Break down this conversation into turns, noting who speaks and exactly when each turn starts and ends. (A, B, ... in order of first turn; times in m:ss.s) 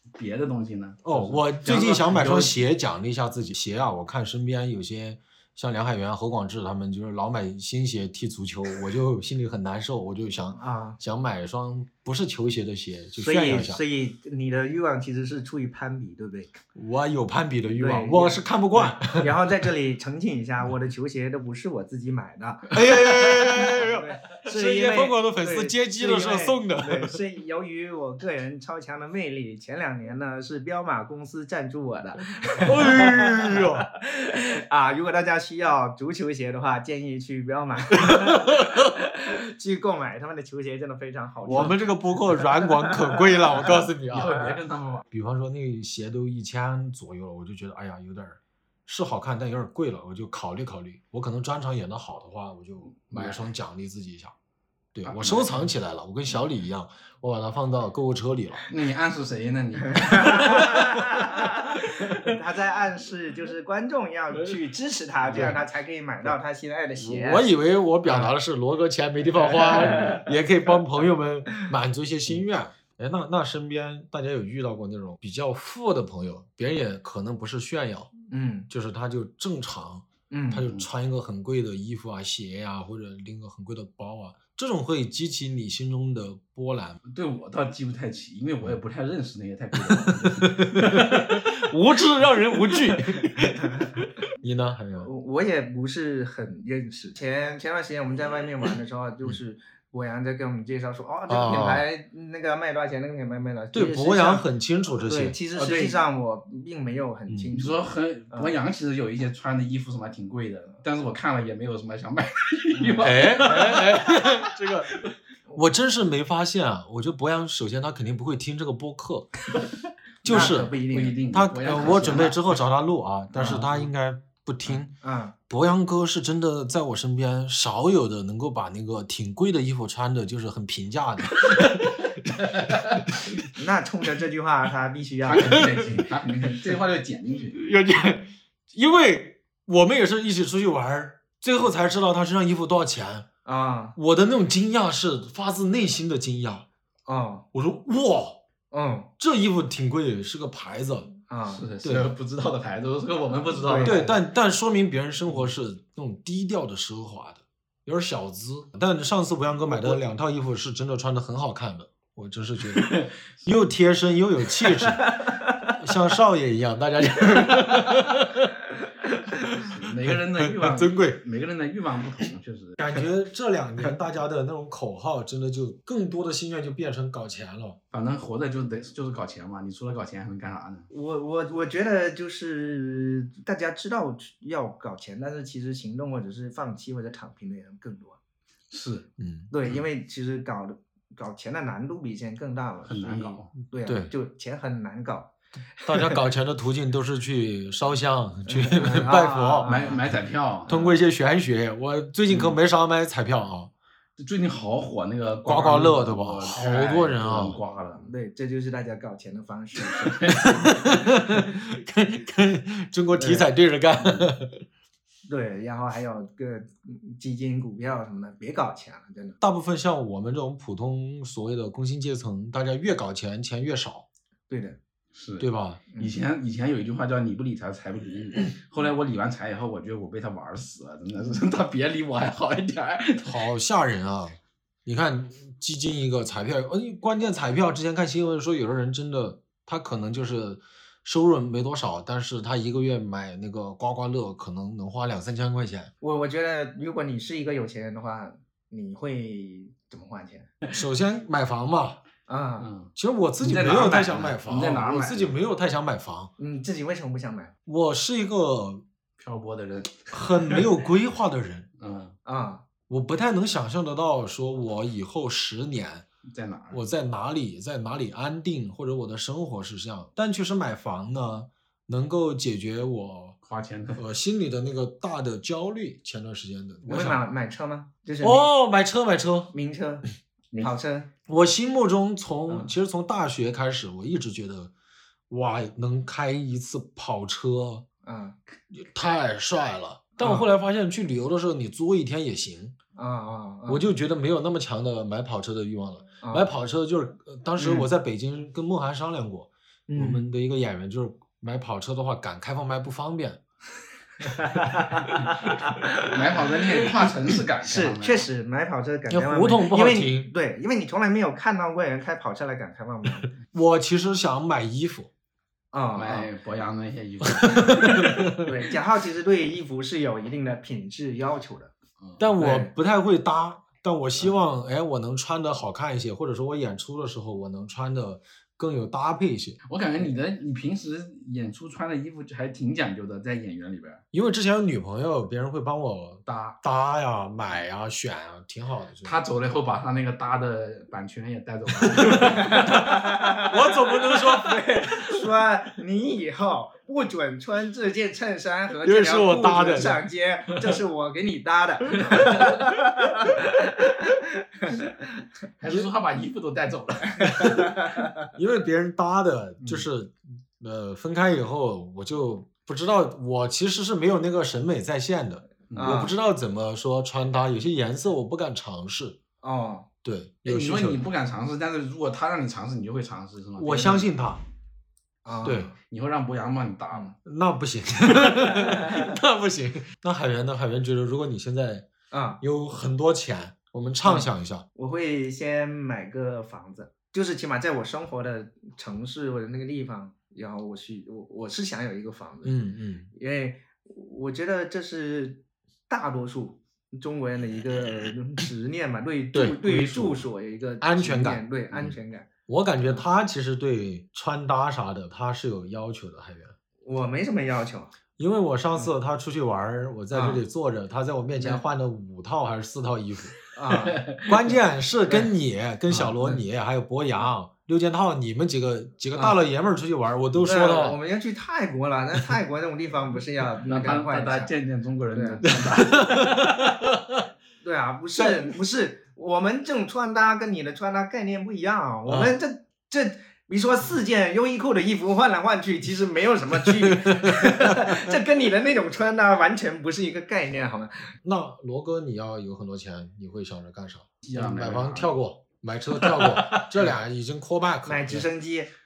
0:00.2-0:02.6 A
0:01.0-0:13.8 B
0:10.5-0:11.0 C
0:13.2-0:16.6 C
0:16.7-0:19.3 B
0:17.7-0:43.8 C
0:22.7-0:27.2 B
0:32.6-0:33.9 B
0:38.0-0:38.8 B
0:41.5-0:44.5 B
0:44.1-0:45.0 A
0:45.1-0:54.3 B
0:53.1-0:53.5 A
0:54.9-0:58.7 B
0:55.0-0:55.7 A
0:58.7-1:01.6 A
1:00.0-1:07.5 C
1:05.3-1:05.6 A
1:05.3-1:05.6 B
1:07.0-1:18.1 B
1:08.0-1:08.3 C
1:09.5-1:10.2 C
1:18.3-1:18.7 C
1:18.7-1:27.0 B
1:20.3-1:20.7 C
1:27.1-1:31.3 A
1:29.8-1:35.1 B
1:33.2-1:34.0 C
1:35.0-1:44.5 C
1:41.3-1:41.8 B
1:43.7-1:45.4 B
1:45.0-1:48.5 C
1:45.6-1:46.0 A
1:47.5-1:54.5 A
1:52.7-1:53.8 C
1:53.0-1:55.0 B
1:55.5-1:59.4 B
2:00.2-2:04.9 B
2:00.2-2:02.3 C
2:00.2-2:02.4 A
2:03.4-2:03.6 C
2:03.4-2:03.8 A
2:05.0-2:05.3 C
2:05.5-2:12.1 B
2:12.4-2:13.0 A
2:12.7-2:13.4 B
2:13.5-2:15.8 C
2:15.3-2:17.6 A
2:17.4-2:23.2 B
2:23.4-2:24.0 C
2:24.0-2:26.7 B
2:27.1-2:27.4 C
2:27.5-2:28.4 B
2:28.7-2:29.1 C
2:29.2-2:31.1 B
2:31.3-2:31.6 C
2:31.5-2:34.1 A
2:31.8-2:32.1 B
2:33.6-2:34.1 C
2:33.8-2:48.5 B
2:39.7-2:40.0 A
2:42.8-2:43.1 A
2:45.0-2:45.8 C
2:49.6-2:52.8 A
2:50.1-2:51.2 B
2:52.8-2:57.8 B
2:57.9-3:00.9 A
3:00.9-3:08.2 C
3:08.7-3:09.1 A
3:09.2-3:09.5 B
3:09.5-3:16.2 C
3:12.9-3:13.5 A
3:13.8-3:14.1 B
3:15.8-3:19.9 B
3:18.4-3:20.0 C
3:19.6-3:20.8 A
3:20.7-3:23.7 B
3:20.7-3:21.0 C
3:22.3-3:22.6 A
3:24.2-3:28.1 A
3:25.4-3:27.6 B
3:28.0-3:30.5 C
3:30.0-3:30.5 A
3:30.4-3:34.6 B
3:33.1-3:33.5 C
3:35.3-3:39.4 C
3:39.4-3:44.1 B
3:44.5-3:44.8 C
3:45.1-3:53.4 A
3:45.4-3:45.8 B
3:53.2-4:05.9 B
4:06.0-4:10.5 C
4:10.7-4:12.0 B
4:12.3-4:12.7 C
4:12.6-4:15.3 A
4:13.0-4:16.3 B
4:16.4-4:17.5 C
4:17.6-4:18.8 B
4:19.2-4:20.6 A
4:20.1-4:21.7 B
4:21.8-4:22.1 A
4:22.2-4:22.6 C
4:22.9-4:26.0 B
4:26.3-4:26.8 A
4:26.7-4:33.4 B
4:33.4-4:34.0 A
4:34.0-4:37.2 B
4:36.8-4:38.5 C
4:38.2-4:39.5 B
4:39.5-4:41.1 C
4:41.3-4:44.7 B
4:45.3-4:47.8 B
4:48.0-4:48.4 C
4:48.7-4:52.7 B
4:50.2-4:50.5 C
4:53.0-4:53.8 C
4:53.7-5:03.4 B
4:56.2-4:56.5 C
4:57.6-4:57.9 C
4:59.9-5:00.2 C
5:04.2-5:06.9 C
5:06.0-5:08.3 A
5:07.6-5:13.3 C
5:09.1-5:10.3 B
5:13.5-5:15.1 B
5:15.7-5:16.3 C
5:16.0-5:18.4 A
5:17.2-5:18.4 B
5:18.4-5:21.7 C
5:22.0-5:22.3 A
5:22.2-5:29.6 B
5:22.4-5:22.7 C
5:29.7-5:34.0 A
5:34.1-5:39.2 B
5:36.2-5:36.6 A
5:39.0-5:43.1 A
5:41.8-5:45.2 B
5:42.3-5:54.9 C
5:48.8-5:50.0 B
5:52.1-5:52.6 A
5:55.6-5:57.7 A
5:57.2-6:09.2 B
5:57.4-5:58.1 C
5:59.6-5:59.8 A
6:05.7-6:06.0 A
6:05.7-6:06.1 C
6:09.4-6:09.9 C
6:10.0-6:11.0 B
6:10.4-6:14.1 A
6:13.6-6:14.4 B
6:15.2-6:15.7 C
6:15.4-6:15.7 B
6:15.8-6:17.2 A
6:17.2-6:21.9 B
6:22.1-6:22.4 C
6:22.4-6:24.6 B
6:24.0-6:32.6 C
6:32.4-6:33.1 B
6:33.1-6:42.3 C
6:39.3-6:40.2 B
6:40.8-6:41.9 B
6:42.5-6:46.5 B
6:46.8-6:47.9 C
6:48.2-6:53.4 B
6:50.1-6:50.4 C
6:53.5-6:54.1 C
6:53.8-6:54.4 A
6:54.2-7:01.0 B
6:55.9-6:56.3 A
6:59.1-6:59.4 C
7:00.4-7:04.5 C
7:03.6-7:06.8 A
7:05.1-7:05.4 C
7:05.5-7:07.2 B
7:07.6-7:21.1 C
7:12.0-7:12.4 B
7:16.6-7:18.1 B
7:21.2-7:28.3 B
7:24.2-7:25.2 A
7:25.9-7:26.8 A
7:27.8-7:28.7 C